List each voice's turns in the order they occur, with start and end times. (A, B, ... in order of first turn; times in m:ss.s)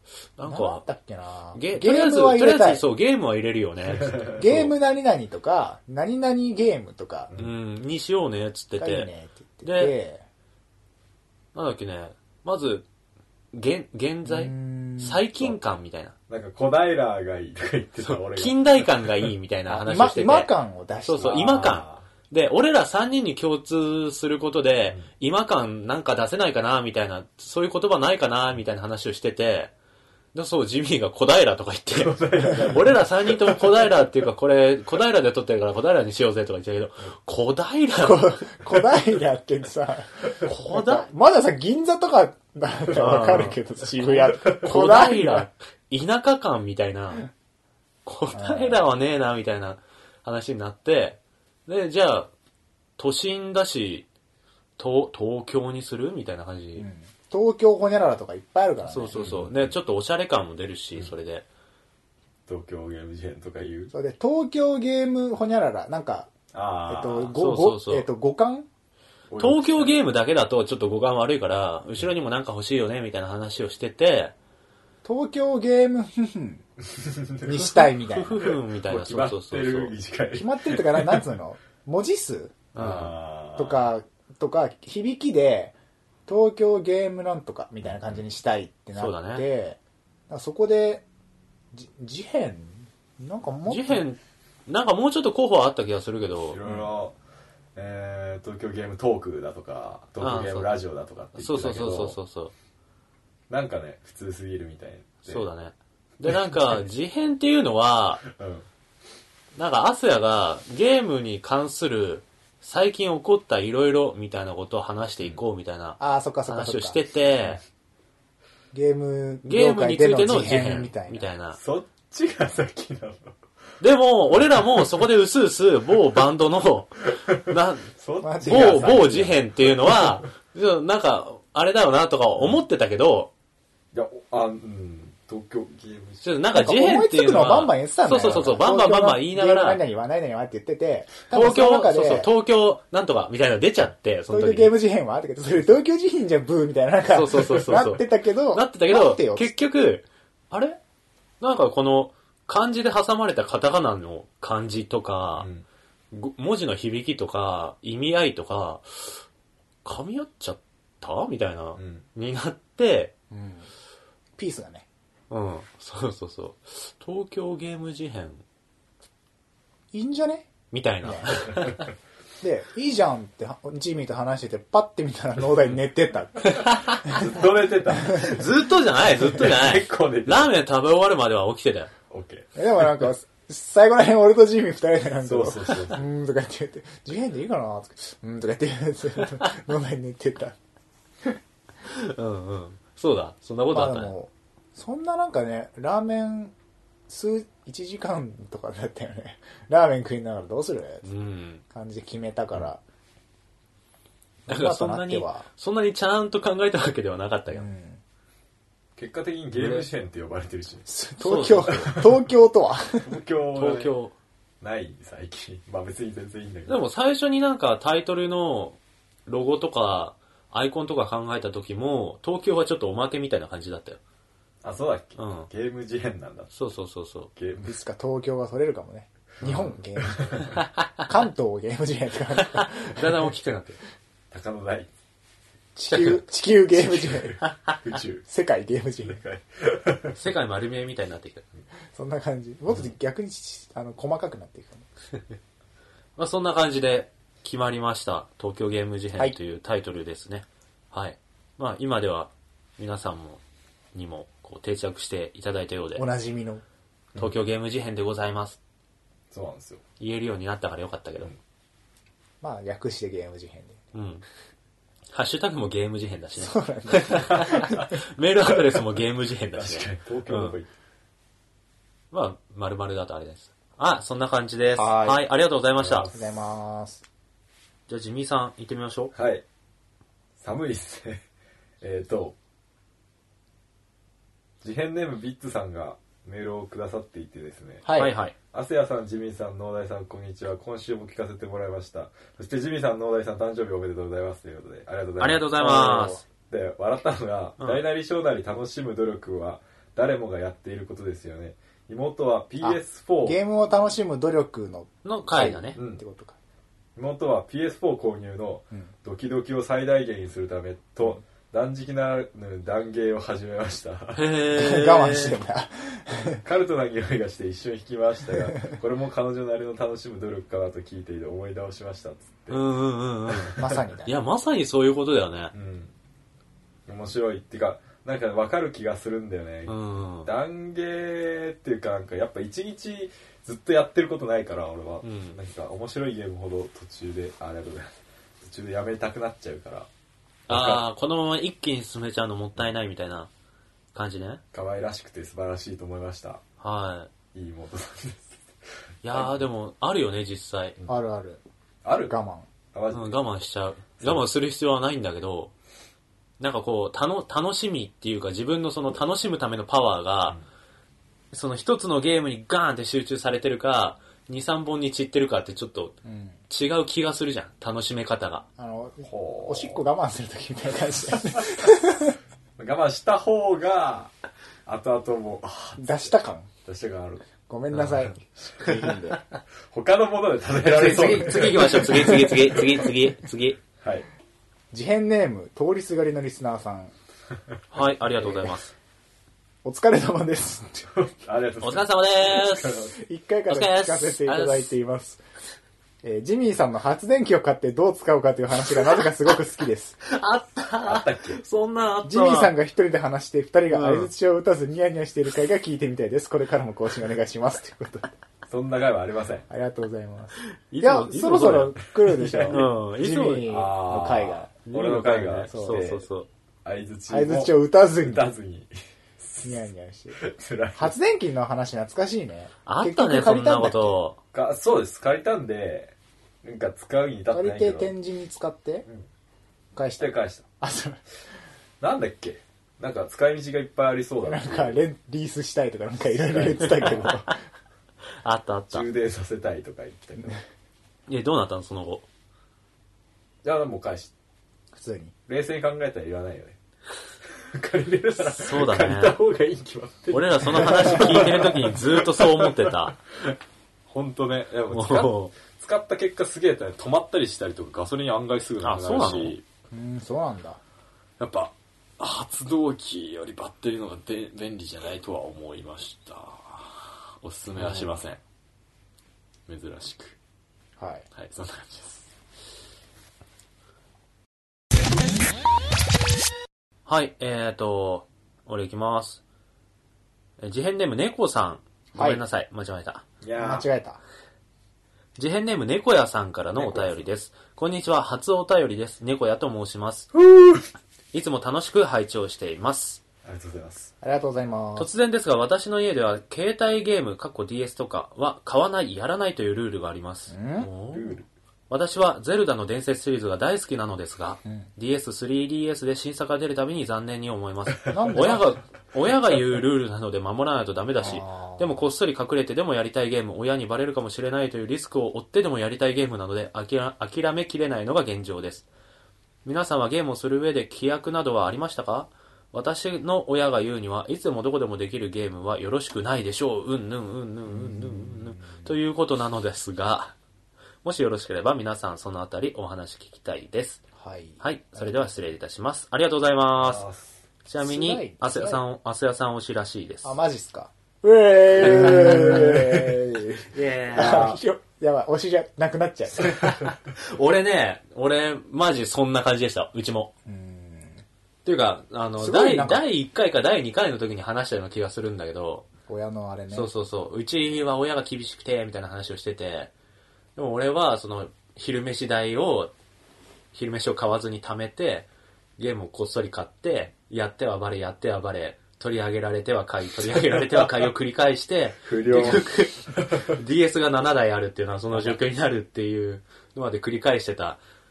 0:00.4-0:00.8 A
0:00.4-0:02.8 B
0:01.5-0:04.7 A
0:03.9-0:04.5 C
0:04.4-0:07.3 B
0:07.3-0:07.6 C
0:07.4-0:09.1 A
0:08.8-0:10.2 B
0:09.6-0:09.9 A
0:11.5-0:12.8 A
0:13.5-0:16.1 A
0:14.2-0:15.2 B
0:16.3-0:19.3 C
0:18.0-0:20.5 A
0:19.7-0:21.6 B
0:21.0-0:29.7 A
0:21.2-0:22.1 C
0:30.3-0:38.6 A
0:31.9-0:34.0 C
0:38.0-0:45.5 B
0:40.4-0:41.1 A
0:42.9-0:47.3 A
0:48.0-0:52.3 A
0:48.3-0:48.8 B
0:53.0-0:54.0 A
0:54.8-0:56.8 A
0:56.8-0:59.2 B
0:58.8-1:01.4 A
0:59.1-0:59.7 C
1:02.5-1:03.9 C
1:03.9-1:06.3 B
1:06.5-1:07.3 C
1:06.9-1:08.7 B
1:07.4-1:08.1 A
1:09.3-1:10.0 C
1:09.4-1:14.3 A
1:15.0-1:16.6 B
1:16.9-1:17.6 C
1:17.4-1:18.5 B
1:17.5-1:19.9 A
1:18.4-1:21.2 C
1:20.3-1:22.6 B
1:22.7-1:23.1 A
1:22.8-1:23.9 C
1:23.6-1:25.7 B
1:26.3-1:31.0 B
1:27.8-1:28.2 C
1:28.9-1:29.4 A
1:31.7-1:34.0 B
1:33.6-1:36.6 A
1:36.5-1:37.1 C
1:37.8-1:42.2 C
1:40.2-1:40.7 A
1:41.3-1:42.5 A
1:43.5-1:45.5 C
1:45.2-1:48.2 A
1:48.2-1:48.6 C
1:49.6-1:57.6 A
1:56.0-1:57.0 B
1:58.7-2:01.3 B
1:59.4-2:01.6 A
2:01.5-2:03.3 C
2:03.8-2:13.3 A
2:08.0-2:10.2 C
2:08.2-2:09.1 B
2:13.9-2:16.2 C
2:16.2-2:19.8 A
2:16.5-2:22.3 B
2:18.2-2:18.6 C
2:21.3-2:24.7 A
2:24.3-2:29.5 B
2:27.1-2:30.8 A
2:31.4-2:35.5 A
2:35.4-2:35.6 C
2:36.1-2:39.2 A
2:39.8-2:43.1 A
2:41.8-2:42.0 C
2:43.3-2:43.7 B
2:44.4-2:44.8 B
2:45.3-2:48.4 A
2:49.9-2:50.5 B
2:50.7-2:51.9 A
2:51.0-2:51.4 B
2:52.4-2:57.2 B
2:56.4-2:57.2 A
2:57.0-2:58.5 C
2:58.1-3:01.9 A
2:59.2-3:00.5 C
3:02.1-3:02.5 C
3:02.6-3:10.6 B
3:05.2-3:06.0 C
3:11.8-3:14.1 A
3:13.7-3:16.5 B
3:17.1-3:21.0 B
3:21.0-3:21.6 A
3:21.7-3:22.8 B
3:24.5-3:25.4 B
3:24.5-3:27.7 A
3:27.5-3:28.0 B
3:29.0-3:30.8 C
3:29.6-3:29.8 A
3:30.8-3:33.1 B
3:31.2-3:31.9 A
3:31.7-3:32.1 C
3:33.0-3:33.9 C
3:33.5-3:34.1 A
3:34.6-3:36.8 C
3:36.7-3:44.0 A
3:44.6-3:46.5 C
3:45.2-3:45.5 A
3:46.5-3:47.3 A
3:47.4-3:47.8 C
3:47.6-3:50.4 B
3:49.4-3:50.5 C
3:50.5-3:51.0 A
3:51.0-3:53.3 B
3:52.4-3:53.8 A
3:54.3-3:54.9 C
3:55.8-3:57.4 B
3:55.9-3:56.2 A
3:56.8-3:58.2 C
3:57.4-3:57.7 A
3:58.3-3:59.2 B
3:59.0-4:00.2 C
4:00.1-4:01.4 A
4:01.9-4:04.8 B
4:06.2-4:13.4 A
4:13.9-4:16.0 A
4:16.0-4:16.6 B
4:17.2-4:18.6 A
4:19.3-4:19.8 C
4:20.0-4:21.3 A
4:22.4-4:23.8 B
4:23.9-4:24.2 A
4:25.1-4:30.6 A
4:26.4-4:27.7 B
4:27.4-4:27.6 C
4:29.5-4:30.7 C
4:32.1-4:36.1 A
4:34.8-4:35.2 B
4:35.8-4:36.3 C
4:36.1-4:37.0 B
4:37.9-4:39.1 A
4:39.1-4:39.4 C
4:40.4-4:41.2 C
4:41.8-4:42.4 C
4:44.6-4:47.8 C
4:47.8-4:48.1 B
4:47.9-4:48.3 A
4:48.5-4:55.5 C
4:55.2-4:56.2 A
4:55.6-4:56.2 B
4:56.5-5:03.4 C
5:02.6-5:06.4 B
5:05.0-5:05.8 A
5:05.8-5:06.0 C
5:07.0-5:14.2 C
5:14.1-5:15.4 A
5:14.5-5:16.4 B
5:16.4-5:22.6 C
5:22.5-5:25.5 A
5:23.3-5:23.7 C
5:23.6-5:24.2 B
5:25.5-5:25.9 C
5:26.9-5:39.9 C
5:29.6-5:30.3 A
5:35.0-5:35.4 A
5:40.5-5:40.8 C
5:40.5-5:43.3 A
5:43.9-5:44.4 A
5:44.5-5:46.4 C
5:46.6-5:47.1 A
5:47.3-5:48.4 C
5:49.0-5:50.8 A
5:49.1-5:49.4 C
5:50.9-5:51.4 B
5:51.8-5:52.1 C
5:52.1-5:52.5 B
5:52.7-5:53.2 C
5:52.9-5:55.5 A
5:56.4-6:00.4 A
6:01.3-6:06.0 A
6:06.0-6:06.4 B
6:06.5-6:08.4 A
6:08.6-6:12.2 B
6:09.0-6:09.8 C
6:11.1-6:11.7 C
6:12.6-6:14.1 C
6:14.6-6:16.1 C
6:15.8-6:16.5 B
6:16.6-6:17.3 C
6:17.4-6:19.2 B
6:19.7-6:22.8 C
6:20.6-6:23.6 A
6:22.1-6:22.3 B
6:23.8-6:24.1 C
6:24.7-6:26.9 B
6:27.7-6:28.7 A
6:28.2-6:28.5 B
6:29.6-6:30.9 B
6:30.9-6:33.0 C
6:31.6-6:32.8 A
6:33.0-6:35.2 B
6:33.5-6:34.7 A
6:36.0-6:40.0 B
6:40.0-6:42.5 A
6:40.8-6:41.4 C
6:42.0-6:48.1 B
6:43.7-6:44.1 A
6:48.5-6:49.5 C
6:49.5-6:54.5 B
6:50.4-6:51.8 A
6:52.1-6:52.6 C
6:52.5-6:53.5 A
6:53.4-6:56.0 C
6:54.6-6:56.3 A
6:55.5-6:55.9 B
6:56.6-7:01.0 C
6:57.1-6:58.3 B
6:59.4-7:00.2 B
7:00.7-7:04.0 B
7:02.6-7:04.2 A
7:04.3-7:07.9 C
7:07.3-7:08.8 B
7:09.7-7:10.1 B
7:10.0-7:10.5 C
7:10.6-7:11.0 B
7:11.8-7:14.8 C
7:14.2-7:17.4 B
7:16.1-7:17.2 C
7:16.8-7:17.3 A
7:18.2-7:18.8 A
7:18.7-7:20.4 C
7:21.1-7:22.0 A
7:23.4-7:24.1 C
7:24.7-7:25.1 B
7:25.3-7:26.6 C
7:27.5-7:33.4 C
7:28.2-7:29.2 A
7:30.1-7:33.0 A
7:33.9-7:39.4 C
7:34.7-7:35.3 A
7:38.6-7:39.4 A
7:39.7-7:40.6 B
7:41.2-7:48.2 C
7:47.6-7:48.0 A
7:49.5-7:50.2 C
7:50.8-7:51.0 B
7:51.1-7:52.0 C
7:56.8-7:59.2 A
8:00.4-8:03.0 A
8:01.9-8:02.2 B
8:03.2-8:03.7 C
8:03.4-8:04.0 B
8:05.2-8:10.1 A
8:06.6-8:07.1 C
8:10.1-8:10.6 C
8:11.1-8:13.0 A
8:13.2-8:13.9 C
8:14.0-8:14.9 B
8:14.8-8:38.7 A
8:20.3-8:20.7 B
8:20.9-8:21.2 C
8:27.9-8:28.5 B
8:31.0-8:31.8 B
8:39.4-8:50.1 A
8:47.5-8:48.7 B
8:50.8-8:53.8 A
8:54.0-8:55.1 B
8:54.4-8:56.8 A
8:56.6-8:57.2 C
8:57.4-9:00.2 A
8:57.6-8:58.6 B
9:00.0-9:06.4 B
9:01.6-9:02.5 A
9:01.6-9:02.9 C
9:03.5-9:04.4 A
9:06.2-9:10.1 A
9:10.2-9:11.0 B
9:11.4-9:15.6 A
9:12.2-9:12.8 B
9:15.9-9:16.7 B
9:16.5-9:19.7 A
9:20.4-9:22.7 A
9:23.5-9:37.6 A
9:30.1-9:30.8 C
9:31.8-9:33.3 C